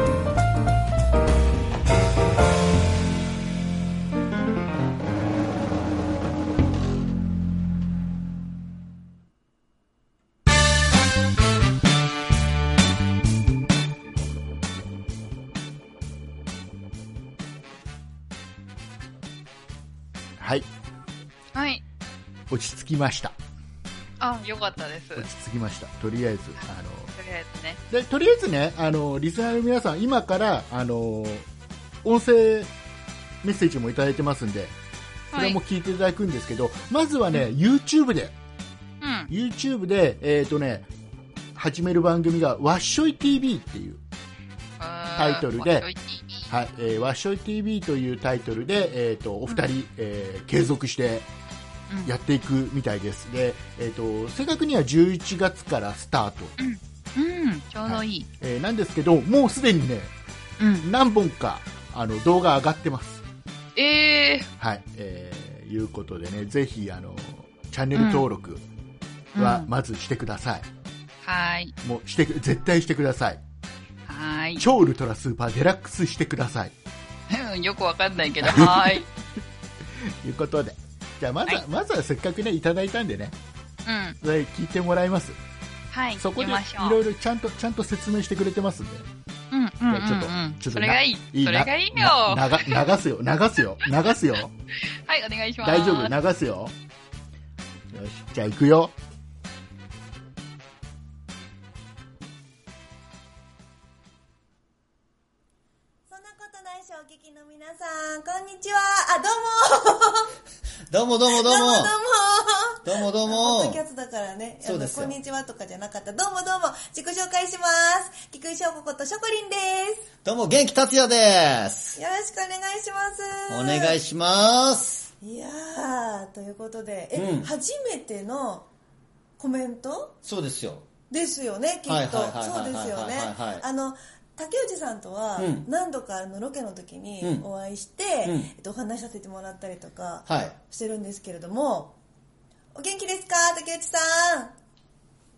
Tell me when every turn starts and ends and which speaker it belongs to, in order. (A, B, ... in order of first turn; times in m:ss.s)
0:20.4-0:20.7 A
0:21.5-0:21.8 B
0:22.5-0:23.4 A
0:24.2-0:25.3 B
0:25.2-0:27.1 A
0:27.2-0:27.8 B
0:27.9-0:31.5 A
0:32.0-0:32.7 A
0:33.4-0:34.8 A
0:35.3-0:35.6 B
0:35.3-0:38.4 A
0:39.0-0:39.3 B
0:39.3-0:40.9 A
0:41.6-0:44.0 A
0:44.8-0:46.5 B
0:45.2-0:45.9 A
0:46.5-0:51.3 A
0:52.0-0:56.6 A
0:56.6-0:58.3 B
0:57.9-1:00.1 A
1:00.6-1:00.9 B
1:00.8-1:03.2 A
1:03.8-1:04.5 B
1:04.6-1:08.6 A
1:08.0-1:08.2 B
1:09.4-1:09.7 B
1:09.4-1:10.7 A
1:11.2-1:11.7 B
1:11.8-1:13.4 A
1:14.1-1:14.7 B
1:14.6-1:16.7 A
1:17.3-1:19.1 B
1:18.4-1:19.1 A
1:19.9-1:23.4 A
1:23.9-1:24.2 B
1:24.2-1:25.4 A
1:25.9-1:27.0 B
1:26.2-1:29.1 A
1:29.5-1:32.8 B
1:29.9-1:34.5 A
1:35.1-1:36.1 B
1:35.6-1:36.7 A
1:37.9-1:38.9 A
1:46.1-1:50.3 C
1:50.9-1:51.9 D
1:51.3-2:00.1 C
1:52.8-1:53.8 D
1:54.6-1:55.2 D
2:00.2-2:02.0 D
2:02.0-2:04.0 C
2:03.5-2:05.1 D
2:05.2-2:08.7 C
2:07.2-2:07.5 D
2:09.4-2:10.2 C
2:10.2-2:10.9 D
2:11.1-2:22.0 C
2:11.9-2:13.6 D
2:15.4-2:15.7 D
2:18.2-2:18.5 D
2:20.3-2:20.6 D
2:22.8-2:24.5 C